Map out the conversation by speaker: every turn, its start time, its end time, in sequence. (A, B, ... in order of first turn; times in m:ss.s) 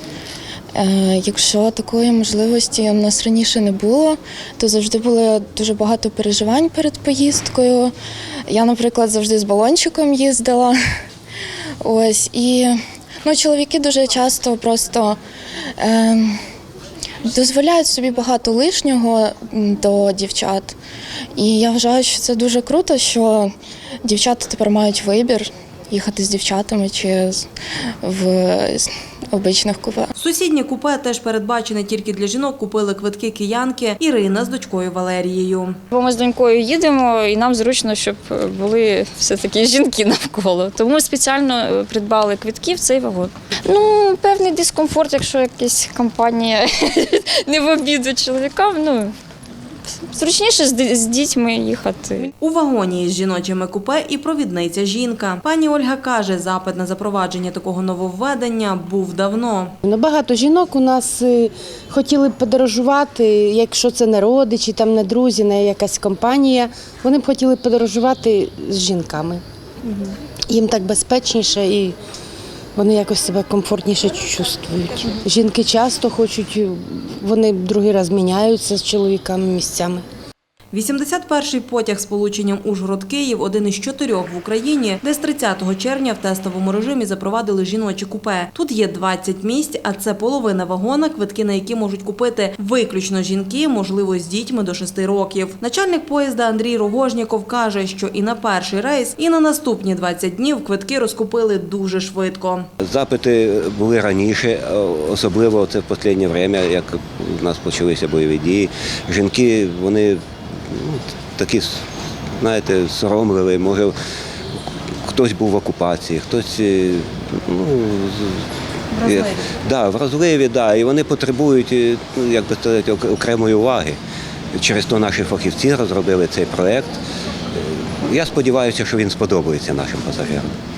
0:00.7-0:07.9 A
0:08.5-0:10.8 A
0:11.8-0:15.2 A
0:15.8-0:16.4 A
0:17.2-0:20.8 A
0:21.4-0:23.5 A
0:24.0-0:27.5 A
0:28.0-0:30.1 A
0:30.2-0:35.8 B
0:35.9-0:49.1 C
0:50.1-0:52.3 C
0:52.4-0:59.7 B
0:59.8-1:09.4 D
1:10.5-1:12.0 D
1:12.7-1:20.0 D
1:20.7-1:42.7 B
1:42.8-1:51.8 E
1:52.4-1:53.9 E
1:55.0-1:58.5 E
1:58.9-1:59.4 B
1:59.0-2:04.0 E
2:04.5-2:07.0 E
2:07.5-2:10.5 E